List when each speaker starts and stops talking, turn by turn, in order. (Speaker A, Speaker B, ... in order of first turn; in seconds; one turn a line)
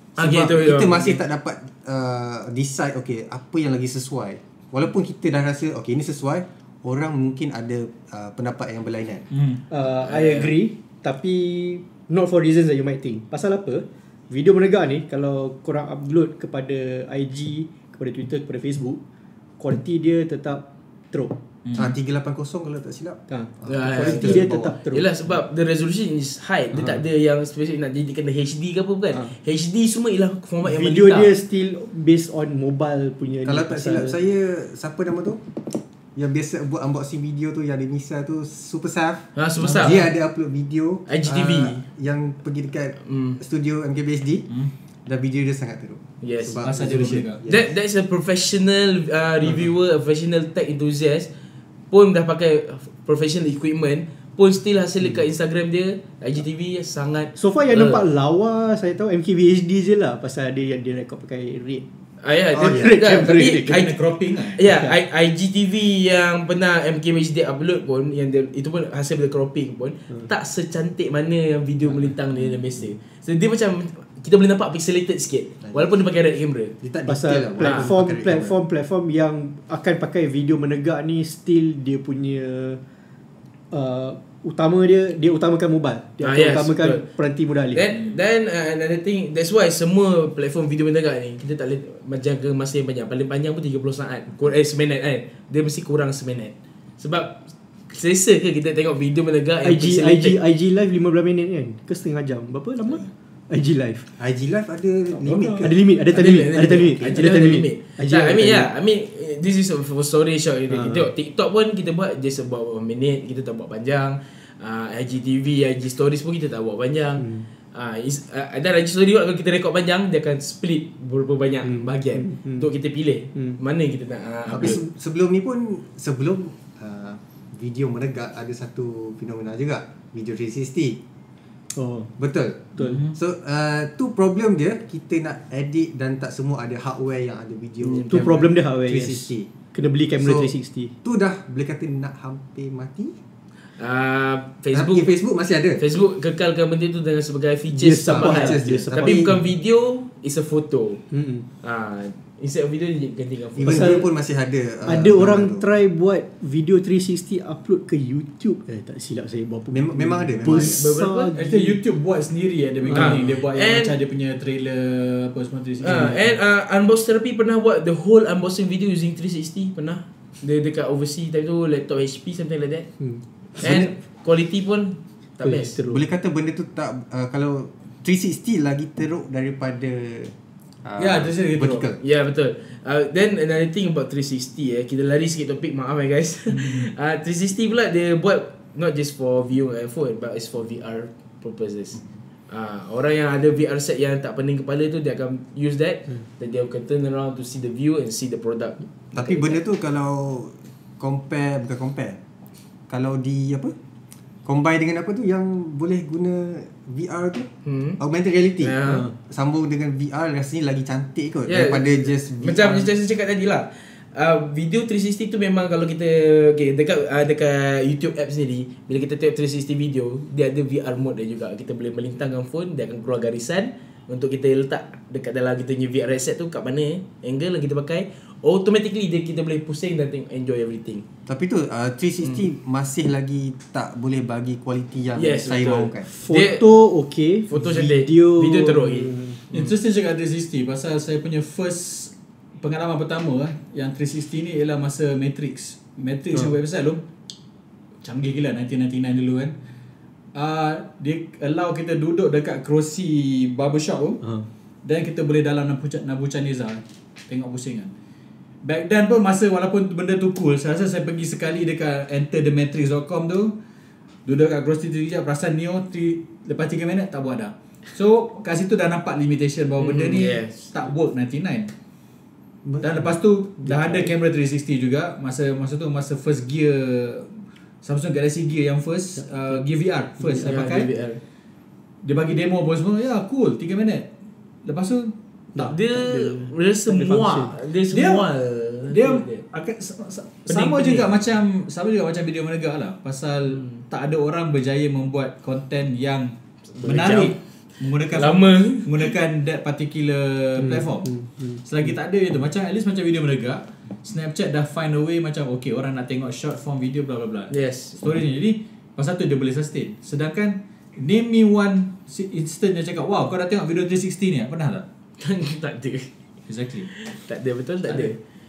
Speaker A: 0.2-9.3
Speaker B: 0.2-1.1
Speaker C: 9.3-9.6
Speaker D: 9.7-19.0
Speaker B: 10.0-10.5
Speaker D: 19.6-21.4
Speaker C: 21.7-21.9
Speaker A: 21.8-24.8
Speaker D: 23.3-25.1
Speaker B: 23.7-31.3
Speaker D: 26.7-27.0
Speaker D: 30.6-34.1
Speaker A: 33.4-35.4
Speaker A: 36.1-44.5
Speaker B: 39.4-40.0
Speaker C: 39.6-40.1
Speaker B: 41.1-41.8
Speaker B: 43.1-43.4
Speaker A: 45.1-47.7
Speaker B: 46.2-46.8
Speaker C: 46.6-47.4
Speaker B: 47.5-51.3
Speaker D: 49.4-49.7
Speaker B: 51.9-58.0
Speaker D: 57.4-61.8
Speaker B: 62.2-63.9
Speaker A: 62.5-63.0
Speaker D: 62.6-63.9
Speaker C: 63.4-64.6
Speaker B: 64.6-76.7
Speaker D: 64.7-64.9
Speaker A: 75.6-75.9
Speaker A: 76.8-78.6
Speaker D: 77.1-82.8
Speaker B: 77.6-77.9
Speaker D: 83.7-87.8
Speaker B: 86.2-87.1
Speaker B: 87.7-100.4
Speaker D: 99.6-104.1
Speaker A: 104.2-105.8
Speaker B: 105.1-124.8
Speaker D: 105.6-108.7
Speaker D: 110.7-111.1
Speaker D: 117.2-117.5
Speaker D: 121.6-122.7
Speaker A: 124.5-131.0
Speaker D: 131.8-132.1
Speaker A: 132.2-139.5
Speaker C: 132.8-133.1
Speaker B: 137.8-138.2
Speaker D: 138.1-140.9
Speaker A: 140.2-140.5
Speaker A: 141.0-143.2
Speaker B: 143.8-145.1
Speaker A: 144.7-145.8
Speaker B: 145.8-151.0
Speaker D: 147.7-149.3
Speaker A: 148.1-149.3
Speaker D: 151.1-151.5
Speaker B: 151.6-153.9
Speaker A: 153.6-155.7
Speaker D: 153.7-154.1
Speaker D: 154.9-161.8
Speaker A: 159.7-160.9
Speaker B: 160.5-161.3
Speaker C: 161.3-166.4
Speaker D: 162.8-163.2
Speaker B: 162.9-163.9
Speaker B: 165.8-172.9
Speaker B: 173.6-175.8
Speaker A: 173.6-173.9
Speaker D: 175.4-176.1
Speaker A: 175.9-182.0
Speaker C: 181.0-181.9
Speaker B: 182.0-199.6
Speaker C: 186.5-186.9
Speaker A: 199.1-202.2
Speaker A: 202.9-203.7
Speaker A: 204.4-207.5
Speaker B: 207.7-208.0
Speaker A: 208.0-212.9
Speaker B: 208.6-209.1
Speaker D: 208.9-209.1
Speaker B: 211.5-211.8
Speaker B: 212.4-231.1
Speaker A: 231.3-236.1
Speaker B: 235.2-236.6
Speaker D: 236.2-239.4
Speaker B: 237.5-239.7
Speaker C: 239.5-247.0
Speaker C: 248.0-249.6
Speaker C: 250.3-254.2
Speaker C: 254.8-257.9
Speaker C: 258.6-263.5
Speaker C: 264.3-271.7
Speaker B: 269.8-270.7
Speaker A: 272.6-273.1
Speaker C: 272.8-280.9
Speaker B: 273.6-274.1
Speaker D: 279.2-279.6
Speaker D: 280.2-280.6
Speaker B: 280.4-281.2
Speaker C: 282.0-284.1
Speaker C: 284.6-285.8
Speaker D: 285.6-287.5
Speaker B: 285.6-289.4
Speaker C: 287.9-288.3
Speaker C: 288.9-314.8
Speaker B: 290.5-291.1
Speaker B: 296.7-297.4
Speaker B: 298.1-299.1
Speaker D: 300.6-301.6
Speaker B: 307.5-308.0
Speaker B: 315.2-316.1
Speaker C: 316.5-316.9
Speaker B: 317.0-318.2
Speaker C: 317.9-318.1